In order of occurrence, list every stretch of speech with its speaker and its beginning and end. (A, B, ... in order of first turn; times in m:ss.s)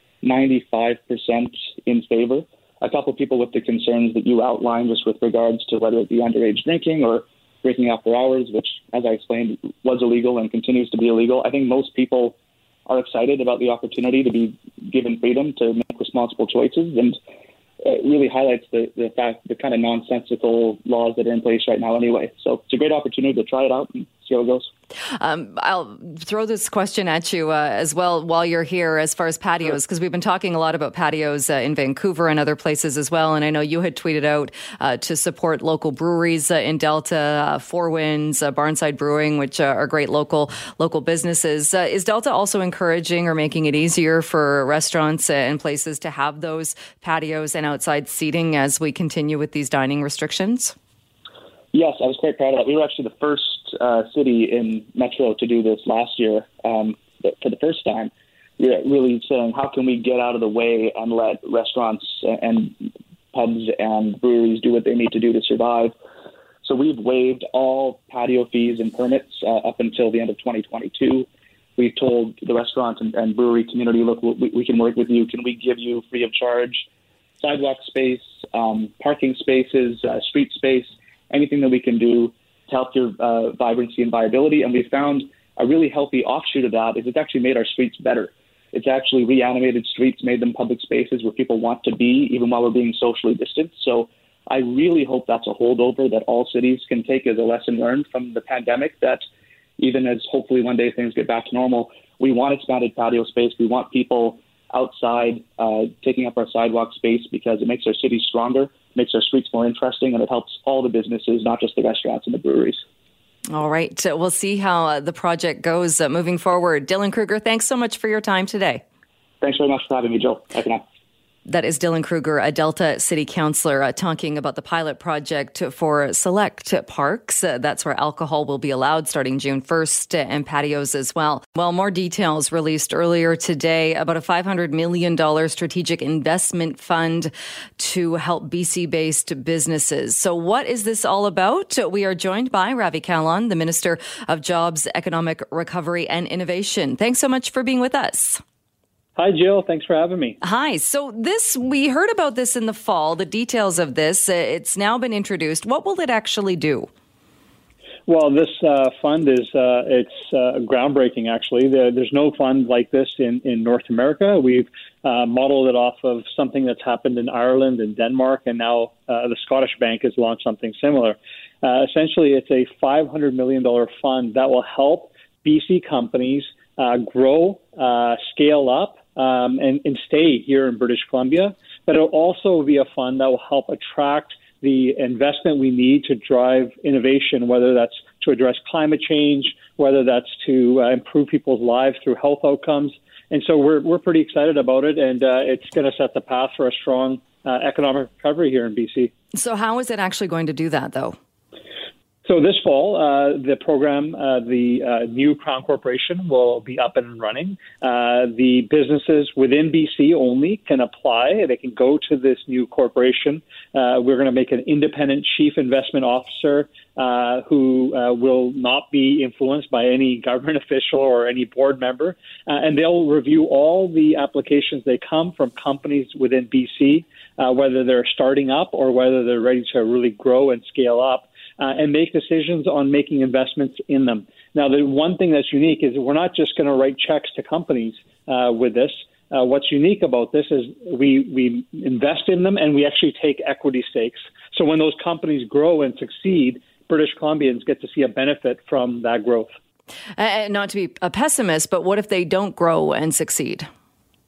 0:00.2-0:12.4 A
0:12.9-0:17.2 A
0:17.8-0:24.7 A
0:25.1-0:50.8 B
0:51.7-1:06.0 A
1:06.6-1:16.9 A
1:17.4-1:39.2 A
1:39.8-1:52.8 A
1:53.5-1:58.8 B
1:59.4-2:00.8 A
2:01.5-2:28.4 B
2:29.2-2:30.4 C
2:30.4-2:36.9 B
2:38.1-3:19.1 C
3:19.3-3:21.2 B
3:22.2-4:09.5 C
4:10.2-4:13.7 B